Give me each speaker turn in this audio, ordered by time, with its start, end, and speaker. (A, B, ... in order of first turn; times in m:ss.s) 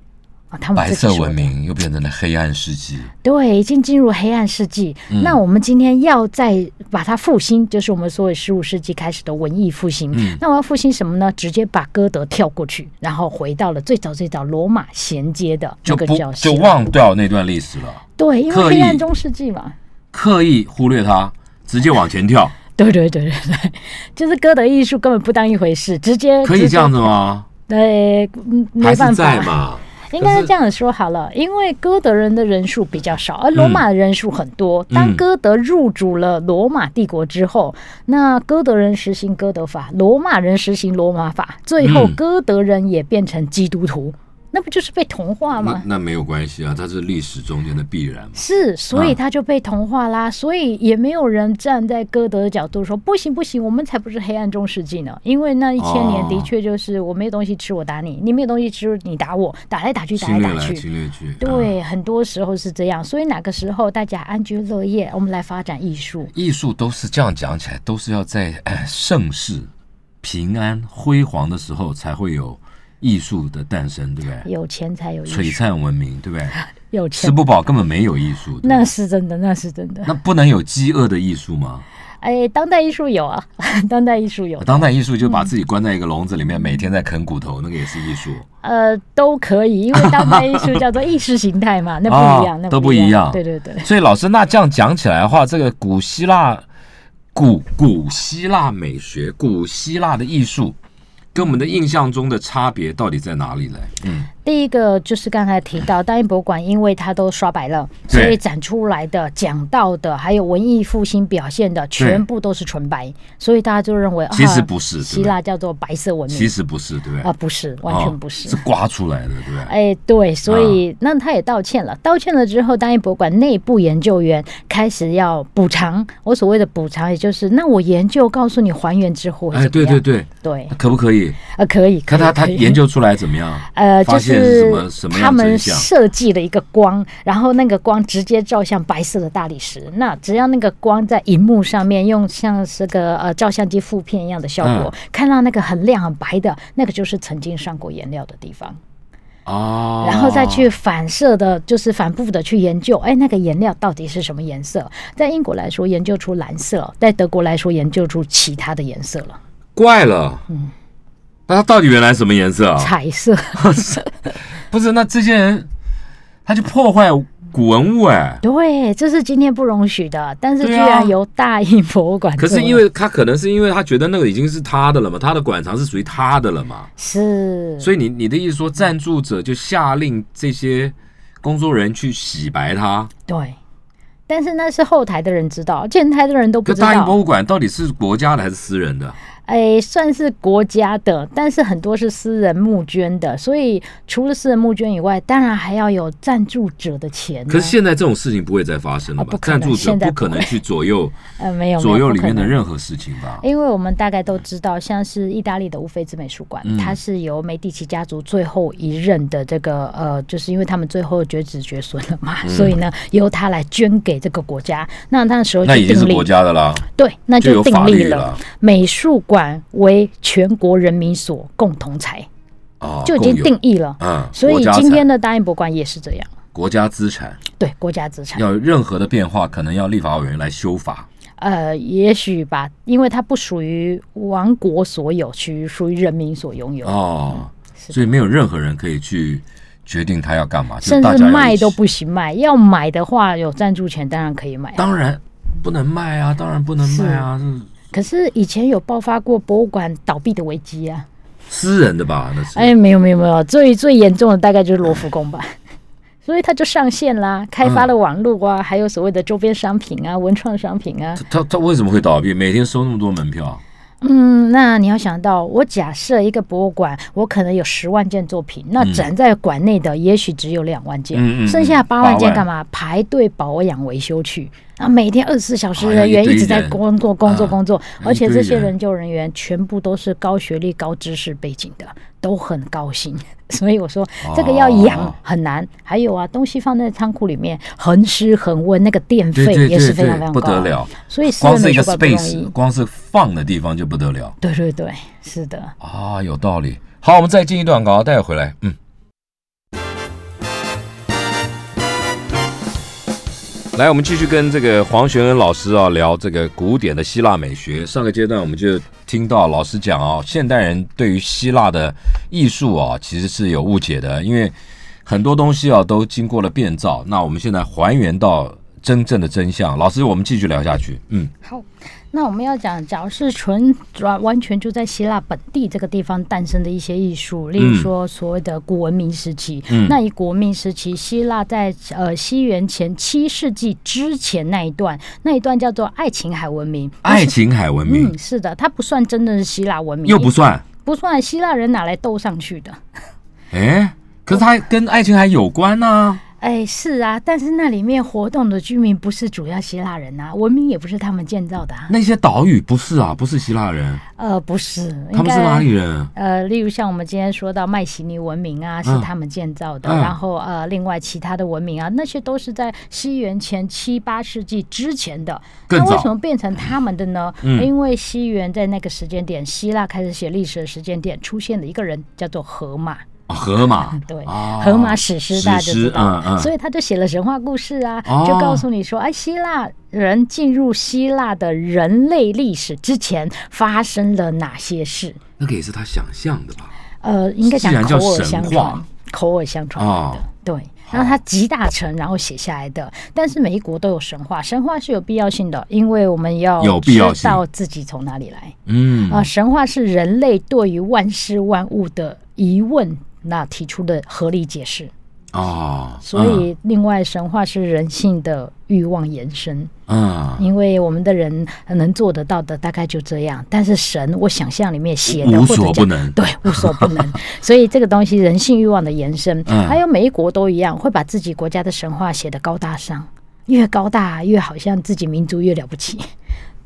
0:00.5-0:01.5 A
0:00.8-0:03.1 B
0:03.2-0:16.8 A
0:05.1-0:05.4 B
0:10.1-0:10.4 B
0:15.8-0:19.0 B
0:18.2-0:19.8 A
0:20.1-0:22.6 B
0:22.8-0:27.1 A
0:26.4-0:27.5 B
0:27.7-0:29.5 A
0:28.8-0:30.5 B
0:30.1-0:45.8 A
0:33.6-0:33.8 B
0:34.9-0:35.2 B
0:41.8-0:42.2 B
0:45.6-0:48.4 B
0:48.4-1:00.9 A
0:55.8-0:56.5 B
1:00.2-1:01.7 B
1:01.4-1:06.3 A
1:06.3-1:09.7 B
1:10.2-1:14.5 B
1:14.4-1:15.6 A
1:15.3-1:16.6 B
1:16.9-1:17.4 A
1:17.2-1:18.9 B
1:18.6-1:20.1 A
1:20.1-1:21.8 B
1:22.2-1:25.5 A
1:24.6-1:28.4 B
1:28.6-1:33.9 A
1:30.0-1:30.8 B
1:32.1-1:36.6 B
1:37.3-1:40.8 B
1:41.3-1:44.3 B
1:44.4-1:56.5 A
1:48.1-1:48.4 B
1:52.0-1:52.2 B
1:54.3-1:55.3 B
1:56.3-1:57.3 B
1:57.2-1:58.6 A
1:57.9-1:59.7 B
1:59.7-2:10.7 A
2:00.5-2:00.8 B
2:09.5-2:11.4 B
2:11.5-2:12.8 A
2:12.1-2:15.9 B
2:13.7-2:28.8 A
2:24.6-2:24.9 B
2:29.5-2:30.7 B
2:30.0-2:39.4 A
2:39.8-2:40.4 B
2:41.5-2:42.9 B
2:42.8-2:44.3 A
2:43.6-2:44.0 B
2:44.7-2:45.7 B
2:46.4-2:48.4 B
2:48.4-2:52.8 A
2:50.6-2:51.2 B
2:52.4-2:56.9 B
2:57.0-2:57.9 A
2:57.8-3:03.1 B
3:03.3-3:03.6 A
3:04.3-3:07.2 A
3:06.7-3:09.2 B
3:09.5-3:17.8 A
3:17.5-3:21.2 B
3:19.2-3:20.6 A
3:21.4-3:22.6 A
3:21.8-3:23.4 B
3:23.4-3:36.3 A
3:26.6-3:27.0 B
3:32.4-3:32.8 B
3:35.6-3:36.8 B
3:37.0-3:42.3 A
3:37.4-3:38.4 B
3:42.8-3:45.0 B
3:43.0-3:46.3 A
3:46.6-3:47.4 B
3:47.6-3:48.4 A
3:48.4-3:51.1 B
3:51.4-3:57.0 A
3:56.8-4:01.8 B
4:00.8-4:04.8 A
4:04.8-4:07.7 B
4:06.8-4:07.3 A
4:07.9-4:11.1 A
4:11.5-4:12.7 B
4:12.5-4:15.5 A
4:16.2-4:21.2 A
4:17.6-4:17.9 B
4:21.2-4:23.6 B
4:24.0-4:52.5 A
4:28.8-4:29.1 B
4:31.1-4:32.5 B
4:35.8-4:38.7 B
4:44.2-4:45.2 B
4:49.4-4:54.4 B
4:54.4-4:55.7 A
4:55.8-4:58.8 B
5:03.7-5:21.3 B
5:21.4-5:37.4 A
5:27.6-5:27.9 B
5:29.7-5:30.0 B
5:37.0-5:38.1 B
5:37.9-5:42.8 A
5:40.0-5:40.6 B
5:43.5-5:46.2 B
5:46.4-5:51.9 A
5:51.9-5:54.0 B
5:54.2-6:13.0 A
5:55.1-5:56.1 B
5:59.8-6:00.2 B
6:05.7-6:06.1 B
6:07.4-6:07.7 B
6:13.3-6:16.5 B
6:13.9-6:25.2 A
6:18.1-6:18.6 B
6:25.4-6:26.7 B
6:27.0-6:44.9 A
6:27.4-6:28.8 B
6:29.8-6:30.2 B
6:30.9-6:31.2 B
6:36.6-6:37.4 B
6:38.7-6:39.3 B
6:45.3-6:46.4 B
6:46.0-6:49.7 A
6:49.9-6:50.4 B
6:50.4-7:06.1 A
6:55.1-6:57.2 B
6:59.5-6:59.8 B